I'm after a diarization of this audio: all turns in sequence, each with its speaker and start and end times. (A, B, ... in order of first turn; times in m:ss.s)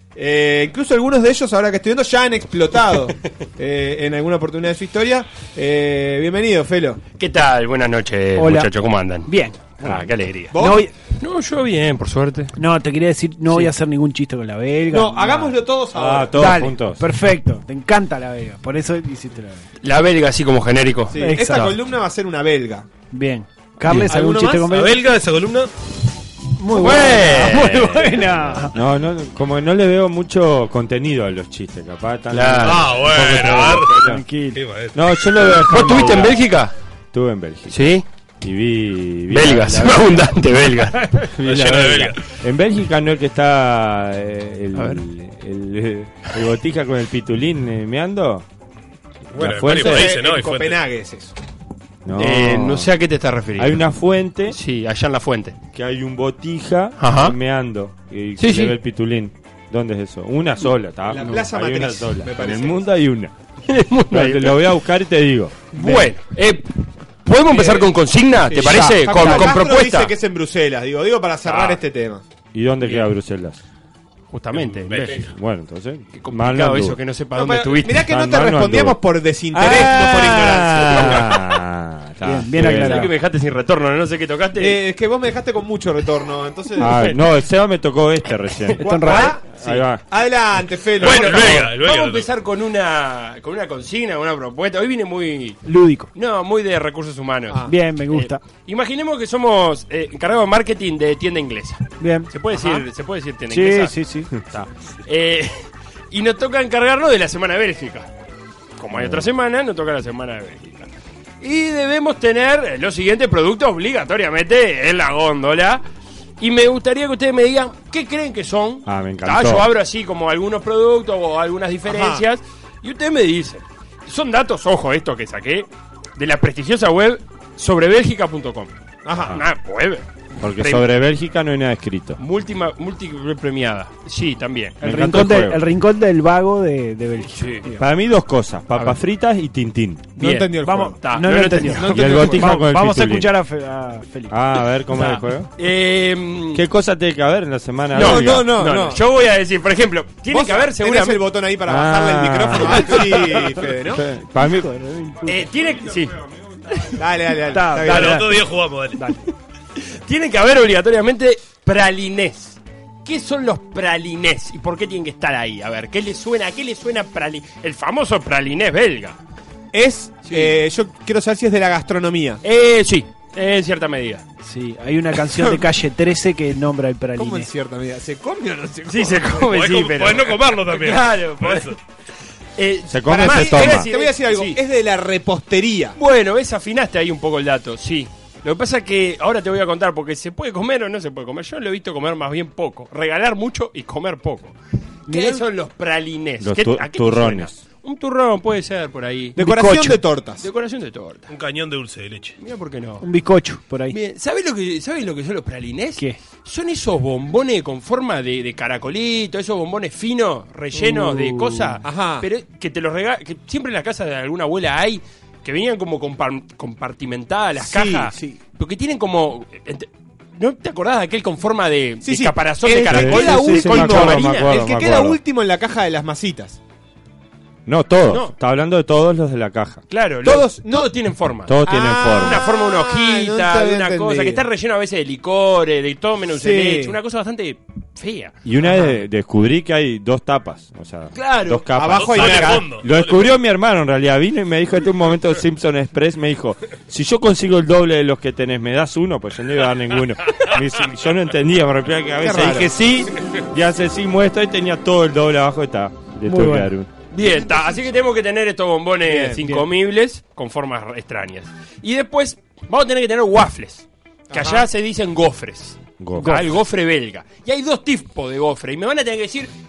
0:00.2-0:07.0 A
0:07.2-0:10.6 B
0:08.4-0:10.9 C
0:10.5-0:10.8 A
0:11.2-0:12.5 B
0:12.6-0:15.6 C
0:14.9-0:16.6 A
0:15.9-0:17.0 D
0:16.4-0:19.7 C
0:19.8-0:21.2 B
0:21.1-0:22.9 A
0:21.2-0:21.8 C
0:23.1-0:25.0 C
0:23.9-0:24.7 A
0:24.7-0:25.7 E
0:26.6-0:28.7 C
0:26.7-0:27.9 B
0:27.6-0:34.2 D
0:32.3-0:32.8 B
0:32.6-0:33.9 E
0:34.0-0:34.6 C
0:34.6-0:35.6 E
0:35.0-0:36.4 D
0:35.6-0:36.7 B
0:37.1-0:37.9 D
0:37.7-0:38.0 B
0:38.4-0:40.4 D
0:39.3-0:41.1 B
0:41.3-0:48.5 D
0:41.4-0:42.2 E
0:44.7-0:45.0 B
0:49.3-0:50.1 D
0:49.4-0:50.8 E
0:49.7-0:51.4 A
0:52.0-0:52.9 D
0:52.1-0:53.8 B
0:53.6-0:54.6 D
0:54.5-0:55.6 B
0:55.7-1:03.3 D
0:57.0-0:57.4 B
0:58.4-0:58.8 B
1:01.1-1:02.8 A
1:03.7-1:04.6 B
1:04.1-1:06.1 D
1:05.7-1:06.7 B
1:07.2-1:10.1 B
1:07.5-1:07.9 A
1:08.5-1:12.2 A
1:11.5-1:11.8 B
1:12.5-1:13.6 D
1:12.8-1:13.1 B
1:14.3-1:15.3 B
1:14.5-1:15.3 E
1:15.1-1:17.0 D
1:16.1-1:18.1 B
1:17.4-1:21.4 A
1:17.9-1:19.0 D
1:19.5-1:23.1 D
1:19.6-1:20.4 C
1:19.8-1:21.4 B
1:22.2-1:23.1 C
1:22.6-1:24.8 B
1:24.6-1:27.2 A
1:26.8-1:30.0 D
1:26.9-1:27.2 B
1:28.7-1:29.2 B
1:28.8-1:29.4 C
1:28.8-1:31.7 A
1:31.0-1:32.3 E
1:31.0-1:35.6 B
1:35.6-1:36.1 C
1:36.1-1:44.0 B
1:37.7-1:38.4 C
1:42.0-1:42.8 C
1:43.5-1:44.3 C
1:44.5-1:48.1 B
1:48.8-1:50.9 B
1:48.9-1:49.3 D
1:51.4-1:55.8 B
1:56.4-2:08.7 B
1:58.9-1:59.7 D
2:01.9-2:02.2 A
2:09.0-2:09.4 A
2:09.2-2:09.4 D
2:09.3-2:10.9 B
2:10.4-2:12.2 D
2:12.2-2:14.8 B
2:14.8-2:17.8 C
2:14.8-2:15.6 D
2:17.3-2:17.8 B
2:17.8-2:20.1 D
2:18.7-2:19.0 B
2:20.2-2:21.0 A
2:20.2-2:22.3 B
2:20.6-2:24.4 C
2:21.7-2:22.6 A
2:21.9-2:23.3 D
2:24.3-2:25.5 D
2:24.9-2:26.6 B
2:26.5-2:28.5 D
2:27.9-2:31.2 B
2:28.0-2:29.0 A
2:30.3-2:34.0 A
2:31.7-2:34.7 D
2:32.6-2:33.2 C
2:34.4-2:35.5 C
2:35.3-2:36.2 B
2:37.0-2:38.3 A
2:37.5-2:38.3 C
2:37.8-2:39.0 E
2:39.0-2:49.2 B
2:49.7-2:52.4 A
2:50.2-2:50.5 B
2:52.4-2:54.2 B
2:54.4-2:57.5 C
2:57.2-2:59.5 A
2:58.9-3:01.8 B
2:59.4-3:01.8 E
3:02.6-3:04.6 B
3:02.9-3:03.9 D
3:03.1-3:06.0 A
3:06.0-3:14.6 B
3:15.1-3:15.4 C
3:15.1-3:19.4 B
3:16.4-3:17.6 D
3:19.4-3:20.5 A
3:19.4-3:20.0 C
3:20.4-3:21.3 B
3:21.3-3:22.4 E
3:22.4-3:23.1 B
3:23.0-3:24.0 C
3:23.9-3:44.6 B
3:30.7-3:31.7 C
3:31.8-3:32.3 A
3:37.6-3:38.4 A
3:42.0-3:46.6 A
3:42.8-3:45.2 D
3:47.7-3:49.8 D
3:48.1-3:48.4 B
3:49.9-3:58.4 B
3:50.2-3:50.9 A
3:51.5-3:52.5 D
3:51.7-3:54.4 A
3:56.3-3:57.0 A
3:58.4-4:17.0 D
3:58.6-3:58.9 A
4:01.1-4:01.7 B
4:01.7-4:02.7 A
4:01.9-4:03.3 E
4:12.2-4:12.7 A
4:16.3-4:16.7 C
4:17.1-4:29.5 B
4:19.1-4:19.4 A
4:24.3-4:24.7 A
4:26.0-4:26.5 D
4:26.2-4:26.5 C